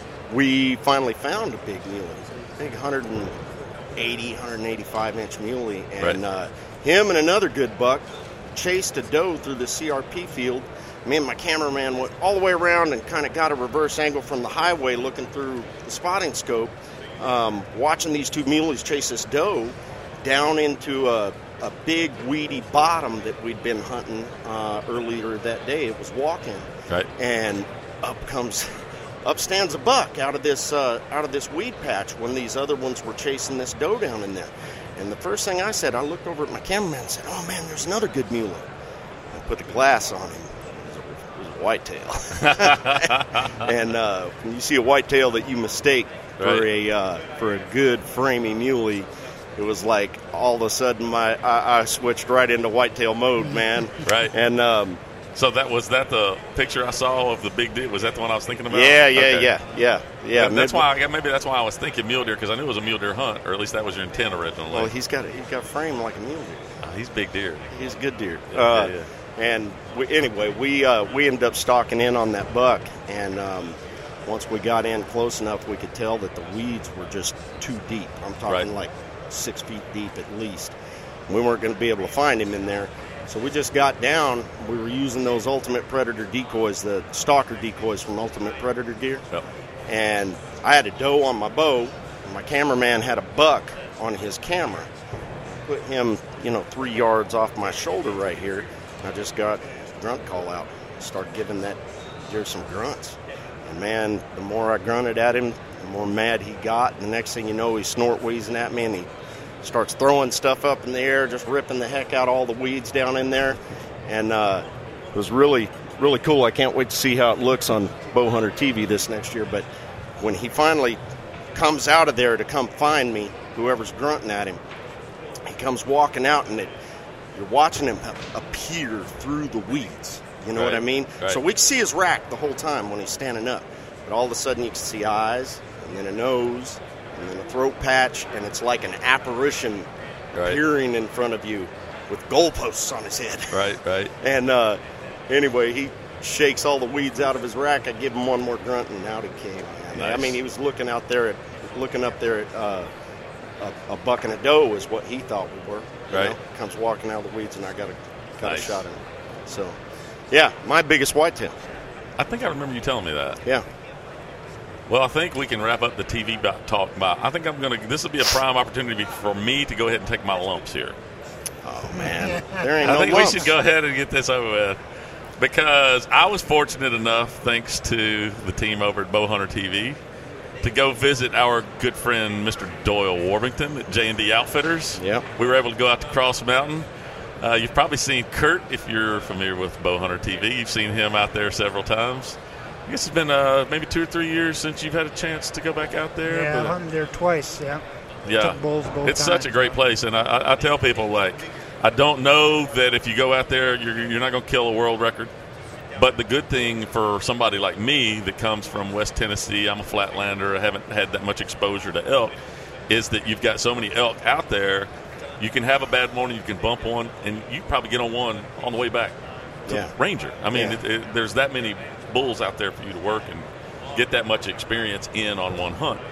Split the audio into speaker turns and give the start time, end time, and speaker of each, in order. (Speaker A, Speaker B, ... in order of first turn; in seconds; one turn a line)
Speaker A: 0.3-3.4
Speaker A: 4.0-28.7
Speaker A: 29.2-38.7
Speaker A: 39.3-55.0
Speaker B: 42.4-43.7
Speaker B: 46.4-46.7
Speaker C: 53.4-53.9
Speaker B: 54.0-54.3
Speaker B: 55.3-59.5
Speaker A: 58.7-60.9
Speaker B: 60.3-64.9
Speaker A: 64.7-66.8
Speaker B: 66.8-67.7
Speaker A: 67.7-80.8
Speaker B: 68.5-69.1
Speaker A: 81.3-89.2
Speaker A: 89.9-94.9
Speaker A: 95.7-109.1
Speaker A: 109.6-119.7
Speaker A: 120.2-121.0
Speaker A: 121.5-124.6
Speaker A: 125.5-126.7
Speaker A: 127.3-143.7
Speaker B: 130.5-131.4
Speaker B: 140.3-140.6
Speaker B: 143.5-144.1
Speaker A: 144.2-152.9
Speaker B: 149.9-150.4
Speaker A: 153.6-159.8
Speaker B: 156.1-156.3
Speaker B: 158.4-158.8
Speaker A: 160.3-161.6
Speaker B: 162.2-163.4
Speaker B: 164.9-170.9
Speaker A: 171.6-173.5
Speaker C: 172.0-172.7
Speaker B: 172.8-174.8
Speaker B: 175.4-180.0
Speaker B: 180.6-186.9
Speaker A: 185.0-185.2
Speaker B: 187.4-196.8
Speaker C: 196.2-199.8
Speaker B: 198.3-205.3
Speaker B: 205.9-212.3
Speaker B: 212.9-226.0
Speaker A: 219.7-219.9
Speaker A: 220.5-220.8